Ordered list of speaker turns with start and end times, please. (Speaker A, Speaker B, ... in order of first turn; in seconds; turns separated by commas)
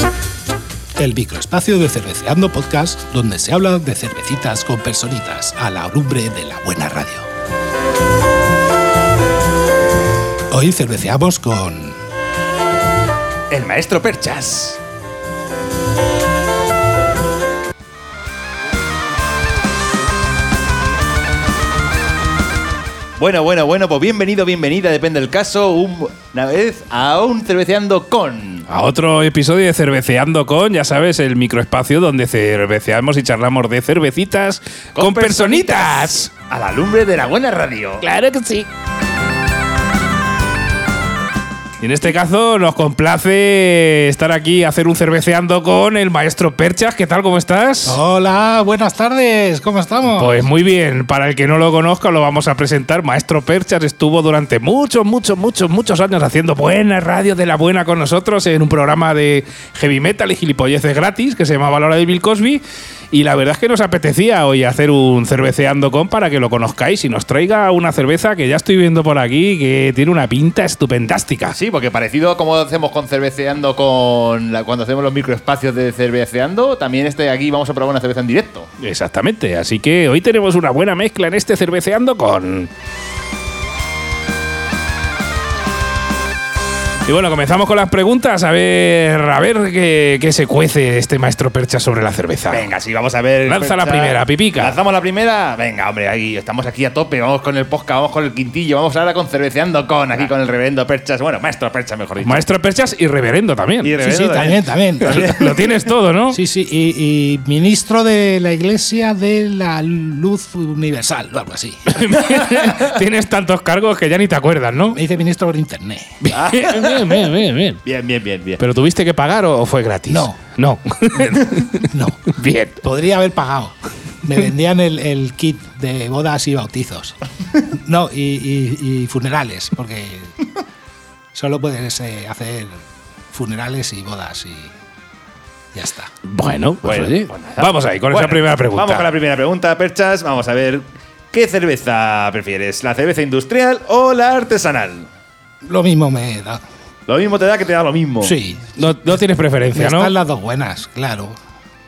Speaker A: 1.0-7.3, Speaker A: 10.5-12.0, Speaker B: 13.5-14.8, Speaker B: 23.2-28.6, Speaker C: 28.7-36.3, Speaker B: 35.0-38.0, Speaker C: 38.0-38.7, Speaker C: 41.8-48.0, Speaker A: 47.9-50.4, Speaker C: 50.1-62.6, Speaker C: 63.1-71.5, Speaker B: 71.5-78.7, Speaker C: 78.8-82.7, Speaker C: 87.0-92.7, Speaker B: 92.5-102.4, Speaker C: 93.4-94.8, Speaker C: 102.2-103.9, Speaker B: 103.8-105.7, Speaker A: 104.0-105.4, Speaker C: 105.1-106.4, Speaker A: 106.3-112.0, Speaker C: 111.9-115.0, Speaker B: 112.2-112.7, Speaker A: 114.9-116.2, Speaker C: 116.2-117.8, Speaker B: 116.3-117.2, Speaker B: 117.8-118.6, Speaker C: 118.6-122.8, Speaker A: 120.1-120.4, Speaker A: 121.9-122.2, Speaker A: 122.8-130.4, Speaker A: 131.3-132.8, Speaker A: 133.3-134.7, Speaker A: 135.7-136.1, Speaker C: 136.2-139.1, Speaker B: 136.8-145.1, Speaker A: 145.6-146.6, Speaker B: 147.1-148.3, Speaker A: 148.2-149.2, Speaker C: 148.7-150.1, Speaker A: 149.7-151.3